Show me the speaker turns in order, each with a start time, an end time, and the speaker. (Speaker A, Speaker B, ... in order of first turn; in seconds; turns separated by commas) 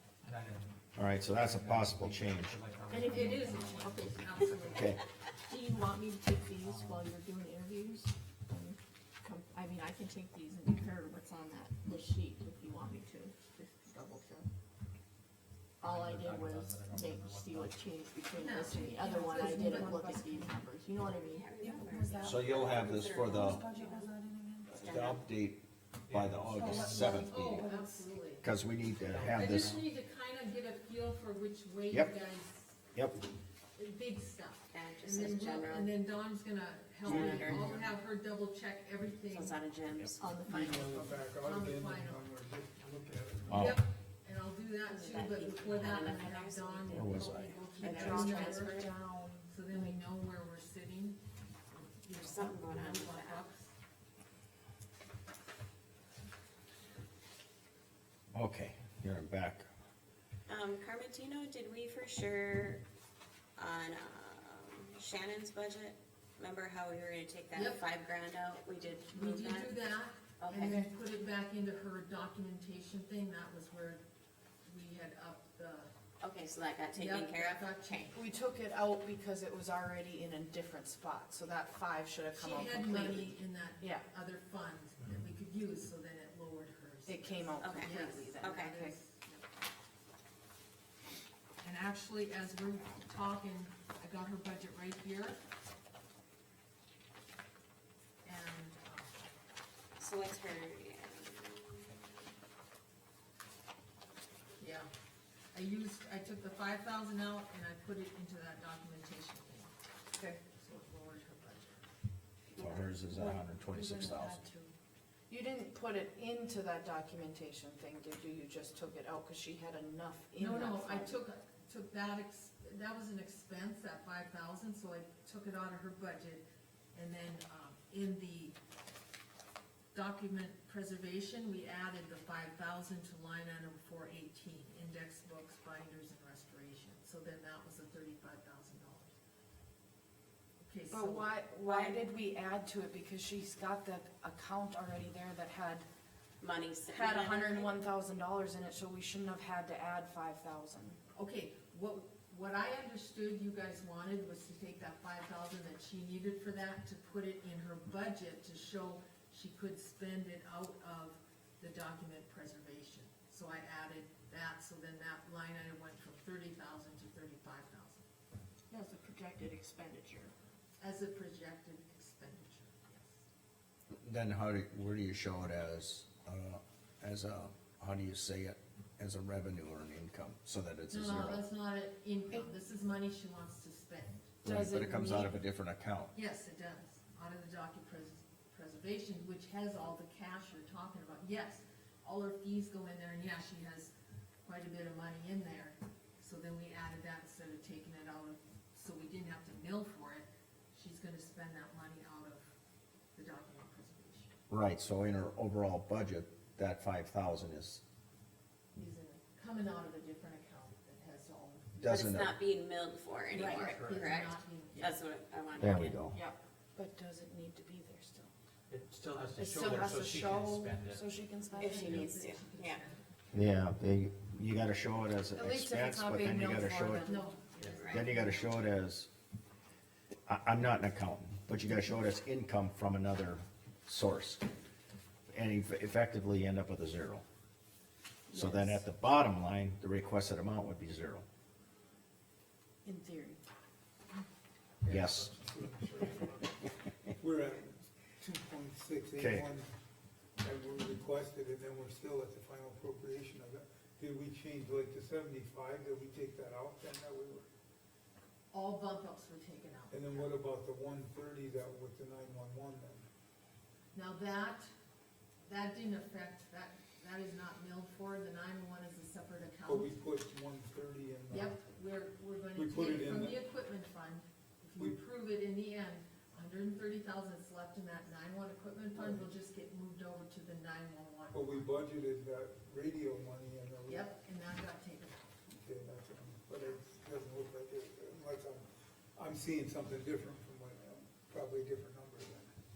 Speaker A: 0.2-4.9, Speaker B: 1.0-2.6, Speaker C: 2.9-4.6, Speaker D: 3.2-5.0, Speaker B: 4.7-5.0, Speaker C: 5.5-14.5, Speaker A: 6.6-7.1, Speaker C: 15.8-21.5, Speaker A: 15.8-17.8, Speaker D: 18.4-20.0, Speaker E: 19.0-20.5, Speaker F: 21.3-24.1, Speaker E: 21.6-24.9, Speaker B: 22.2-23.6, Speaker F: 24.8-25.2, Speaker B: 24.8-27.3, Speaker A: 26.1-27.4, Speaker E: 26.5-28.1, Speaker D: 27.0-28.4, Speaker B: 28.4-29.8, Speaker A: 29.1-29.9, Speaker D: 29.3-32.8, Speaker B: 32.9-33.2, Speaker D: 33.8-39.6, Speaker F: 34.7-35.9, Speaker F: 37.0-37.7, Speaker G: 37.0-38.0, Speaker F: 39.3-40.2, Speaker C: 40.2-41.1, Speaker G: 40.5-43.8, Speaker D: 41.4-42.3, Speaker B: 43.5-43.8, Speaker D: 43.5-48.9, Speaker F: 44.9-47.3, Speaker B: 46.9-47.5, Speaker E: 47.8-49.9, Speaker F: 47.8-48.9, Speaker D: 49.5-51.2, Speaker D: 51.7-53.7, Speaker F: 52.2-53.4, Speaker B: 58.3-59.7, Speaker F: 60.5-62.8, Speaker F: 63.6-69.8, Speaker D: 67.5-67.8, Speaker D: 69.1-74.0, Speaker F: 70.4-70.8, Speaker D: 74.7-75.9, Speaker F: 76.2-77.9, Speaker D: 76.9-78.2, Speaker E: 78.1-84.0, Speaker D: 82.3-89.4, Speaker E: 87.1-89.0, Speaker F: 87.6-88.8, Speaker D: 91.6-95.4, Speaker D: 98.2-99.3, Speaker F: 100.0-101.9, Speaker D: 104.6-104.9, Speaker D: 105.5-109.7, Speaker D: 110.5-111.9, Speaker F: 112.6-112.9, Speaker B: 112.6-114.4, Speaker E: 113.1-114.7, Speaker E: 115.3-121.2, Speaker D: 120.4-128.6, Speaker D: 129.9-139.1, Speaker D: 140.6-141.4, Speaker E: 140.9-145.9, Speaker F: 141.6-142.1, Speaker F: 146.4-147.8, Speaker E: 146.9-151.0, Speaker D: 151.1-168.1, Speaker C: 168.7-170.3, Speaker D: 170.8-173.2, Speaker B: 174.0-181.5, Speaker D: 180.9-184.4, Speaker E: 184.4-185.3, Speaker B: 184.4-186.1, Speaker D: 186.1-193.9, Speaker D: 194.4-202.5, Speaker D: 203.2-204.4, Speaker B: 204.5-207.8, Speaker D: 208.8-211.8, Speaker B: 211.8-212.4, Speaker F: 211.8-216.0, Speaker E: 213.4-213.8, Speaker D: 213.4-214.9, Speaker A: 213.6-214.1, Speaker B: 215.6-216.2, Speaker E: 216.1-218.3, Speaker A: 218.7-221.1, Speaker E: 219.3-221.9, Speaker F: 221.6-222.8, Speaker D: 221.6-223.1, Speaker B: 223.3-227.1, Speaker E: 225.3-227.5, Speaker D: 227.1-228.5, Speaker A: 227.6-227.9, Speaker F: 227.6-228.1, Speaker B: 227.9-229.1, Speaker B: 230.3-234.4, Speaker B: 235.3-237.2, Speaker E: 238.3-238.8, Speaker B: 238.3-241.2, Speaker E: 242.8-243.4, Speaker G: 244.8-249.7, Speaker B: 244.9-245.3, Speaker B: 249.2-249.5, Speaker G: 250.4-257.4, Speaker D: 258.5-260.3, Speaker G: 259.9-263.1, Speaker D: 263.9-264.7, Speaker D: 265.5-269.9, Speaker G: 269.6-271.6, Speaker D: 271.3-281.7, Speaker G: 272.6-273.4, Speaker G: 278.9-279.3, Speaker G: 281.3-284.1, Speaker D: 283.9-285.4, Speaker G: 285.5-292.5